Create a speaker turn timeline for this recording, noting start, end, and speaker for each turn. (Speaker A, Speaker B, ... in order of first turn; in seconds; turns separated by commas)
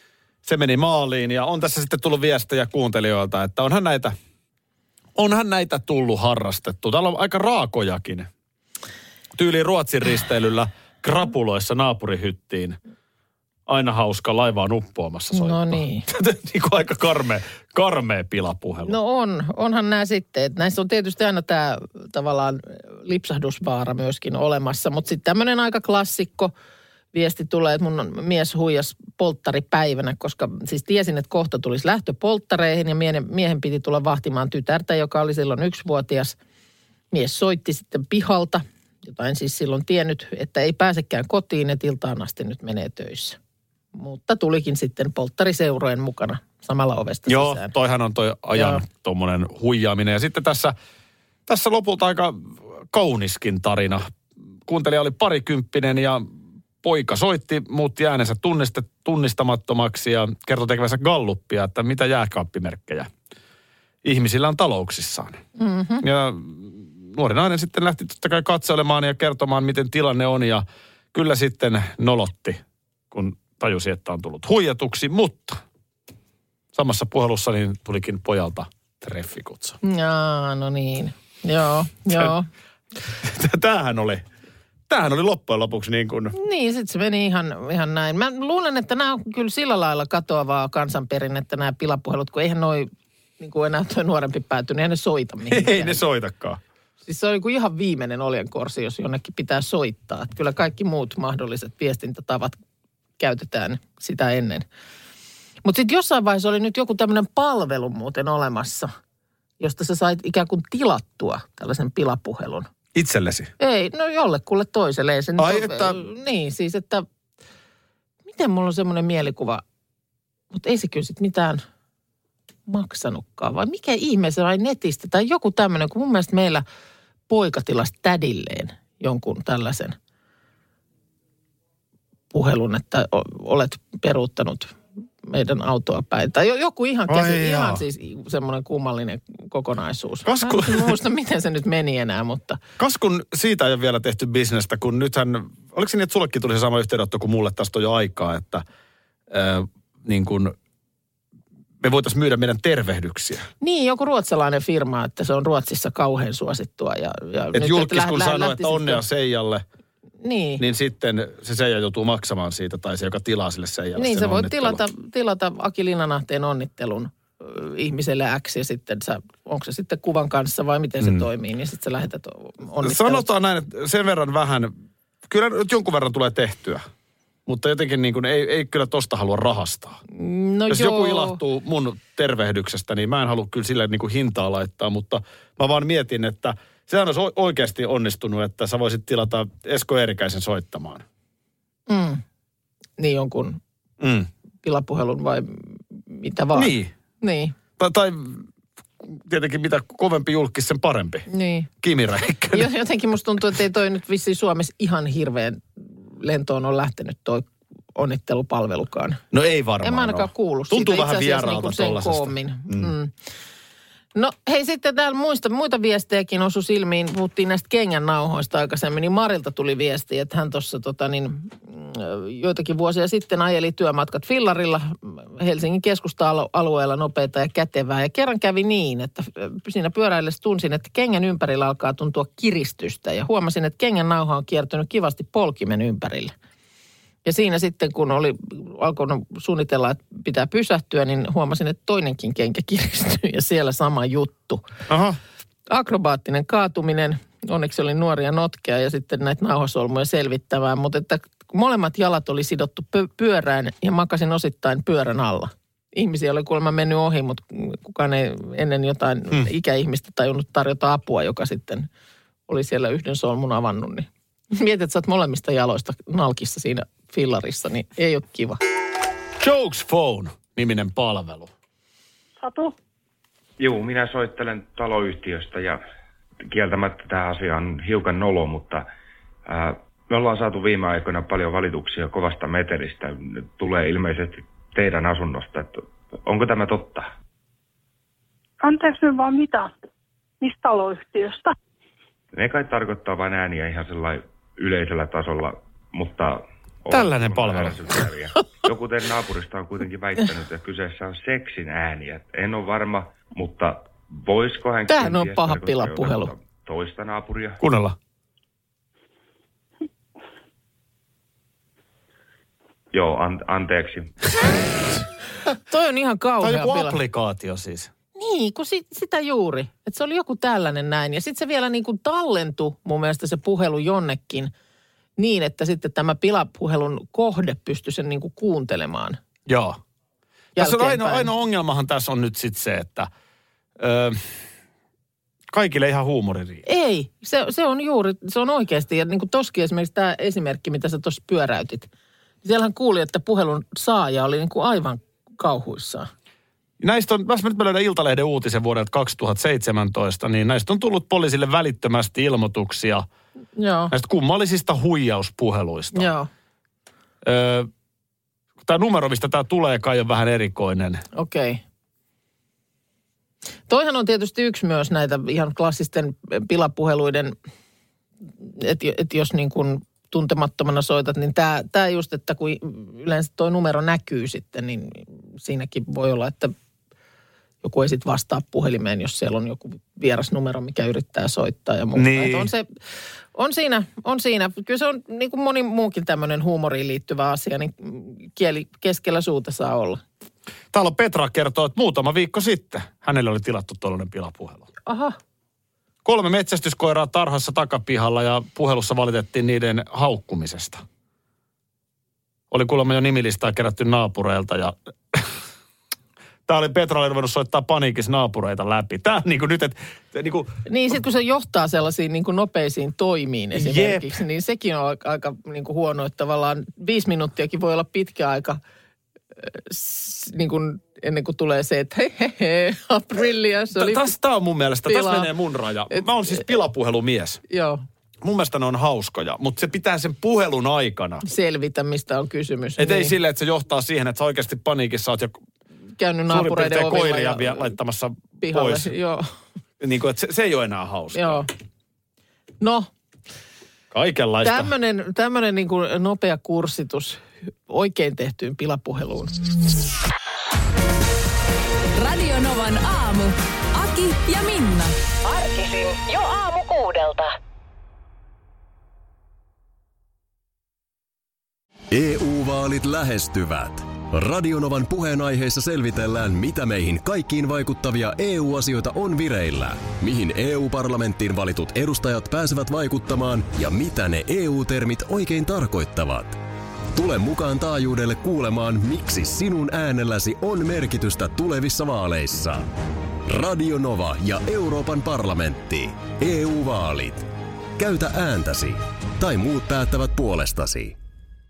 Speaker A: 0.4-4.2, Speaker A: 5.2-8.3, Speaker A: 9.3-12.8, Speaker A: 13.7-19.0, Speaker B: 15.3-16.1, Speaker B: 18.9-26.5, Speaker B: 27.1-36.4, Speaker B: 37.1-43.4, Speaker B: 43.9-47.7, Speaker A: 47.3-50.7, Speaker B: 48.5-48.8, Speaker A: 51.5-54.1, Speaker A: 54.7-56.3, Speaker A: 56.8-63.1, Speaker A: 64.0-65.4, Speaker B: 65.6-66.0, Speaker A: 66.0-72.6, Speaker A: 73.1-75.6, Speaker A: 76.7-79.8, Speaker B: 79.8-82.5, Speaker A: 83.2-84.2, Speaker A: 84.9-86.3, Speaker B: 86.3-96.0, Speaker A: 95.5-96.6, Speaker B: 97.1-102.6, Speaker B: 103.2-104.7, Speaker B: 105.6-108.9, Speaker B: 109.6-112.7, Speaker A: 113.0-113.5, Speaker B: 113.6-117.0, Speaker A: 115.4-116.0, Speaker B: 118.3-119.6, Speaker B: 120.5-121.6, Speaker B: 122.7-126.7, Speaker B: 127.3-130.0, Speaker B: 132.3-142.6, Speaker A: 137.1-137.8, Speaker A: 140.2-141.0, Speaker A: 142.8-148.6, Speaker A: 149.3-150.6, Speaker A: 151.8-153.5, Speaker B: 153.6-159.0, Speaker A: 157.5-159.6, Speaker B: 160.2-160.6, Speaker A: 160.6-164.8, Speaker B: 163.9-173.2, Speaker A: 172.8-174.7, Speaker A: 175.3-176.8, Speaker A: 177.5-180.0, Speaker B: 180.1-181.4, Speaker A: 180.7-191.0, Speaker B: 191.9-192.2, Speaker B: 193.0-193.6, Speaker A: 194.0-194.3, Speaker B: 194.6-197.6, Speaker A: 196.5-196.9, Speaker A: 197.8-198.4, Speaker A: 199.1-201.3, Speaker B: 201.3-201.7, Speaker A: 201.8-202.7, Speaker B: 202.5-209.2, Speaker A: 209.3-212.9, Speaker B: 209.8-213.1, Speaker B: 214.2-236.3, Speaker B: 237.2-244.7, Speaker A: 244.9-245.2, Speaker B: 245.7-261.9, Speaker B: 262.5-268.6, Speaker A: 269.4-271.5, Speaker C: 272.4-272.8, Speaker D: 273.6-275.8, Speaker D: 276.5-278.9, Speaker D: 279.5-287.1, Speaker C: 288.6-289.7, Speaker C: 290.4-291.6, Speaker D: 292.3-307.6, Speaker A: 296.9-297.9, Speaker B: 304.9-306.3, Speaker A: 307.6-308.0, Speaker D: 312.9-314.4, Speaker B: 315.7-317.0, Speaker A: 316.4-317.9, Speaker B: 318.2-324.5, Speaker B: 325.2-329.2, Speaker A: 329.5-329.8, Speaker B: 330.6-331.3, Speaker A: 330.6-333.1, Speaker A: 333.8-334.2, Speaker A: 335.5-336.6, Speaker B: 336.7-341.9, Speaker B: 342.4-346.1, Speaker A: 346.8-353.1, Speaker B: 353.6-353.9, Speaker A: 353.9-356.1, Speaker B: 355.9-356.3, Speaker A: 357.2-357.7, Speaker A: 358.6-361.0, Speaker B: 361.1-361.6, Speaker B: 363.7-367.4, Speaker B: 368.4-376.5, Speaker B: 377.6-382.7, Speaker A: 381.9-382.5, Speaker B: 383.4-390.0, Speaker A: 390.7-394.7, Speaker B: 394.9-395.2, Speaker A: 396.1-400.8, Speaker A: 402.5-405.3, Speaker A: 406.5-410.6, Speaker B: 410.7-418.6, Speaker A: 413.5-414.2, Speaker B: 419.4-424.1, Speaker A: 423.8-427.4, Speaker B: 424.9-425.3, Speaker B: 425.9-426.4, Speaker B: 427.5-427.8, Speaker A: 428.2-431.2, Speaker B: 431.2-433.1, Speaker A: 432.8-435.4, Speaker B: 436.0-437.7, Speaker A: 436.3-438.9, Speaker B: 438.4-439.3, Speaker A: 439.8-441.5, Speaker B: 441.1-441.5, Speaker B: 442.6-442.9, Speaker A: 443.9-444.7, Speaker B: 444.4-449.4, Speaker E: 452.0-455.0, Speaker F: 455.2-457.3, Speaker G: 461.9-476.4, Speaker G: 476.9-482.7, Speaker G: 483.2-491.0